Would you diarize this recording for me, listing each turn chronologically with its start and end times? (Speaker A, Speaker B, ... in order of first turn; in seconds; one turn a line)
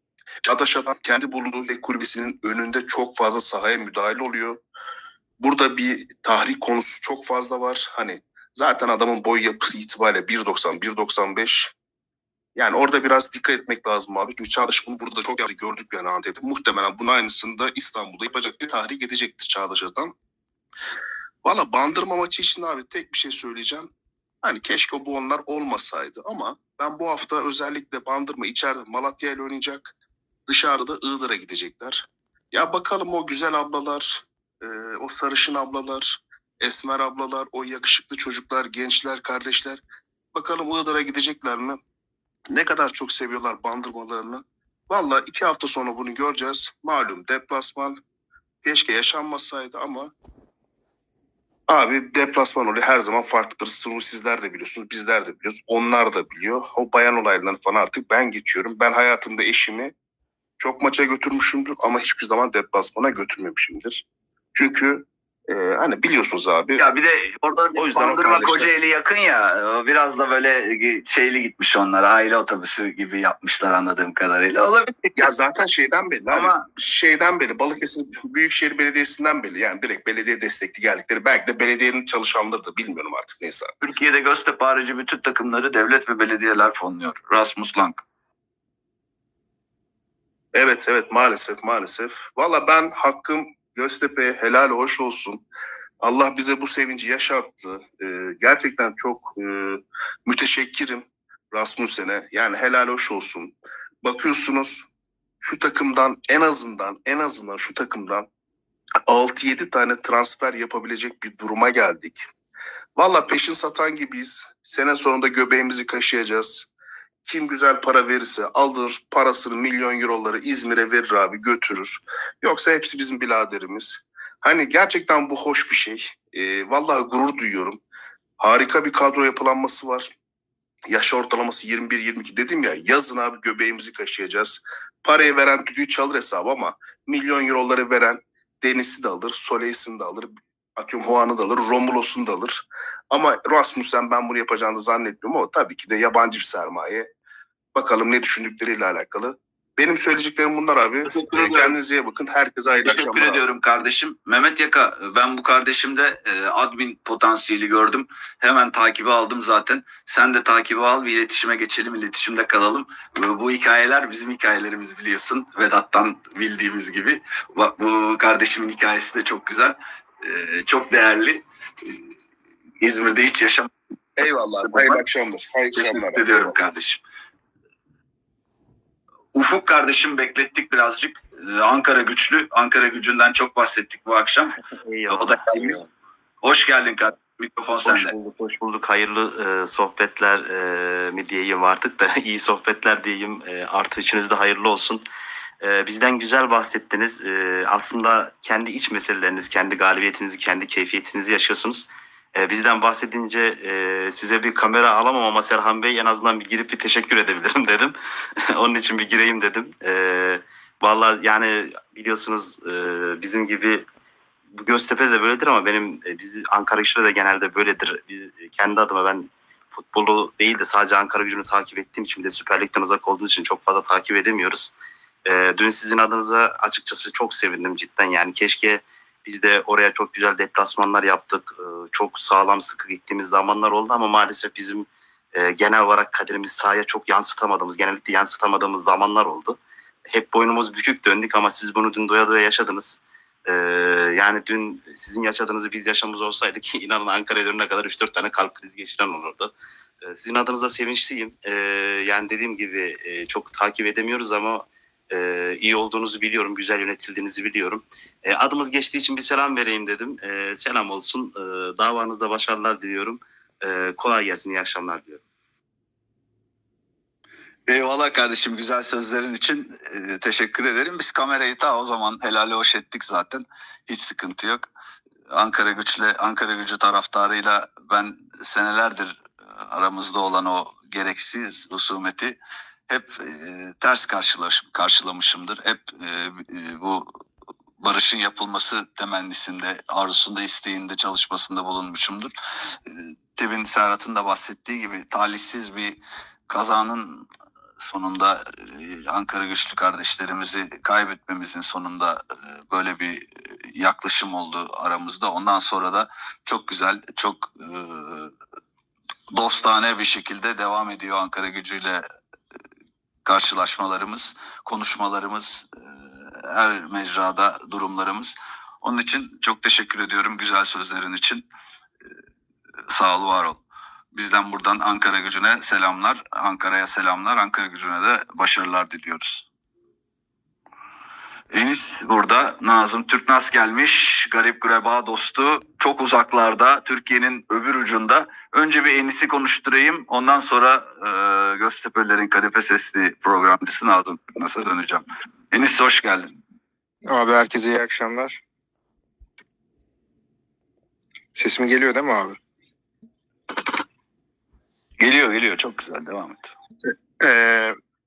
Speaker A: 0.4-4.6
Speaker A: 5.4-11.7
Speaker A: 12.5-20.1
Speaker A: 21.4-23.9
Speaker A: 24.4-29.9
Speaker A: 30.5-39.8
Speaker A: 40.3-41.8
Speaker A: 42.5-48.0
Speaker A: 48.6-50.1
Speaker A: 51.7-59.9
Speaker A: 60.6-66.8
Speaker B: 66.8-75.3
Speaker A: 67.7-68.7
Speaker A: 75.2-83.7
Speaker B: 76.3-76.7
Speaker B: 83.8-88.0
Speaker A: 90.5-95.4
Speaker A: 96.0-104.9
Speaker A: 105.4-108.3
Speaker A: 109.1-112.2
Speaker A: 113.0-116.7
Speaker A: 117.2-127.8
Speaker A: 128.4-130.1
Speaker A: 130.9-147.1
Speaker A: 147.7-153.4
Speaker B: 151.1-151.8
Speaker B: 152.8-172.0
Speaker B: 172.8-173.7
Speaker A: 174.2-176.5
Speaker B: 174.7-175.0
Speaker B: 175.7-177.0
Speaker B: 179.3-184.6
Speaker C: 184.8-185.8
Speaker B: 185.1-185.8
Speaker B: 186.4-188.1
Speaker C: 187.8-195.0
Speaker C: 195.6-207.9
Speaker C: 208.5-213.9
Speaker C: 214.5-224.7
Speaker C: 225.2-249.5
Speaker C: 250.0-265.2
Speaker B: 267.7-274.7
Speaker B: 275.3-287.1
Speaker B: 287.8-297.3
Speaker B: 297.8-308.3
Speaker B: 309.3-312.0
Speaker B: 313.2-321.5
Speaker B: 322.9-323.6
Speaker B: 324.1-329.5
Speaker B: 331.5-346.4
Speaker D: 347.1-348.4
Speaker D: 351.3-352.4
Speaker B: 355.0-356.5
Speaker D: 356.9-357.8